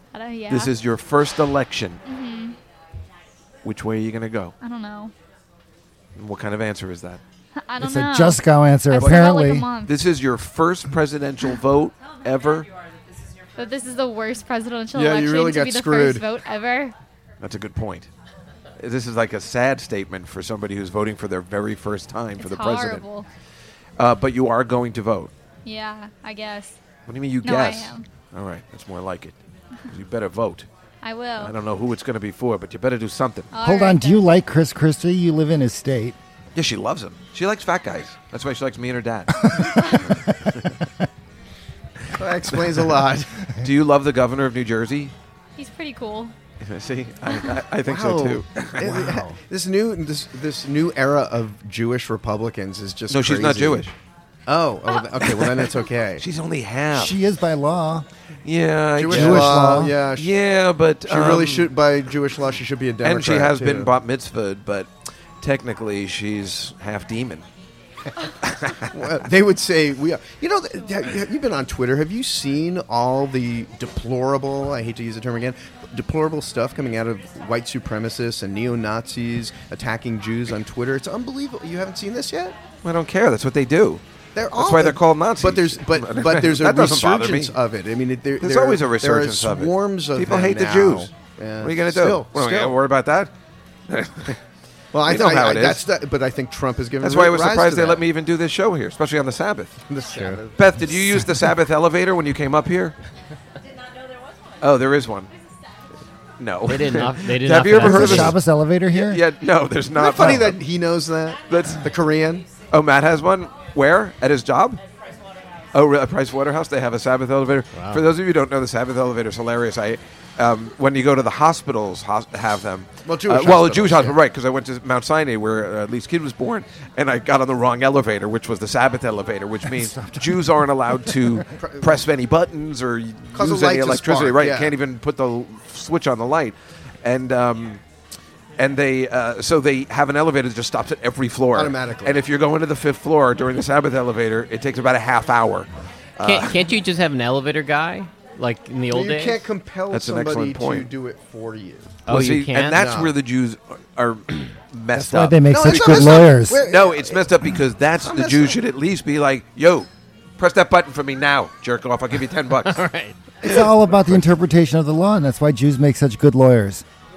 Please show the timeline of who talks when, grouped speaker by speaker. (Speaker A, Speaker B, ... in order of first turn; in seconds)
Speaker A: 0.1-0.7, 2.0-2.6, 4.6-5.1, 7.6-10.1, 13.6-16.9, 22.4-23.3, 25.6-26.8, 27.4-28.1, 31.0-31.5, 33.5-34.2, 45.6-46.3
Speaker B: 0.5-2.0, 3.6-4.5, 6.1-7.2, 9.0-9.3, 9.8-12.7, 17.4-18.1, 18.8-23.1, 24.0-25.3, 27.1-29.4, 29.9-30.7, 31.4-33.5, 36.5-40.7, 42.5-43.0, 43.5-45.1, 46.6-49.2, 53.1-53.9, 55.2-55.6, 56.2-57.2, 58.4-61.7, 63.0-64.9, 65.4-67.5, 68.4-69.1, 82.8-84.0, 84.5-87.5, 88.4-91.1, 91.6-93.3, 93.9-94.4, 95.0-95.8, 97.0-99.8, 100.5-102.9, 104.6-105.3, 106.4-108.4, 108.9-110.6, 111.5-111.9, 112.6-114.8, 115.7-137.8, 138.6-146.6, 149.9-150.9, 152.1-162.8, 163.4-164.2
Speaker C: 7.8-9.7, 33.6-36.2, 56.9-58.0, 59.1-59.9, 107.7-109.2, 129.7-131.2, 154.9-156.6, 163.4-166.8
Speaker D: 14.9-16.2, 42.1-43.3, 47.8-53.9, 54.5-56.2, 59.0-60.3, 61.0-63.9, 68.9-82.6, 84.3-92.8, 94.9-98.0, 99.9-100.5, 109.9-112.5, 123.0-124.2, 131.6-131.9, 133.3-134.7, 141.5-142.2, 148.9-152.0, 152.7-153.1, 155.4-157.3, 158.0-158.6
Speaker E: 100.0-100.4, 106.7-108.3, 117.7-118.0, 146.2-149.5, 152.1-152.8, 162.7-163.1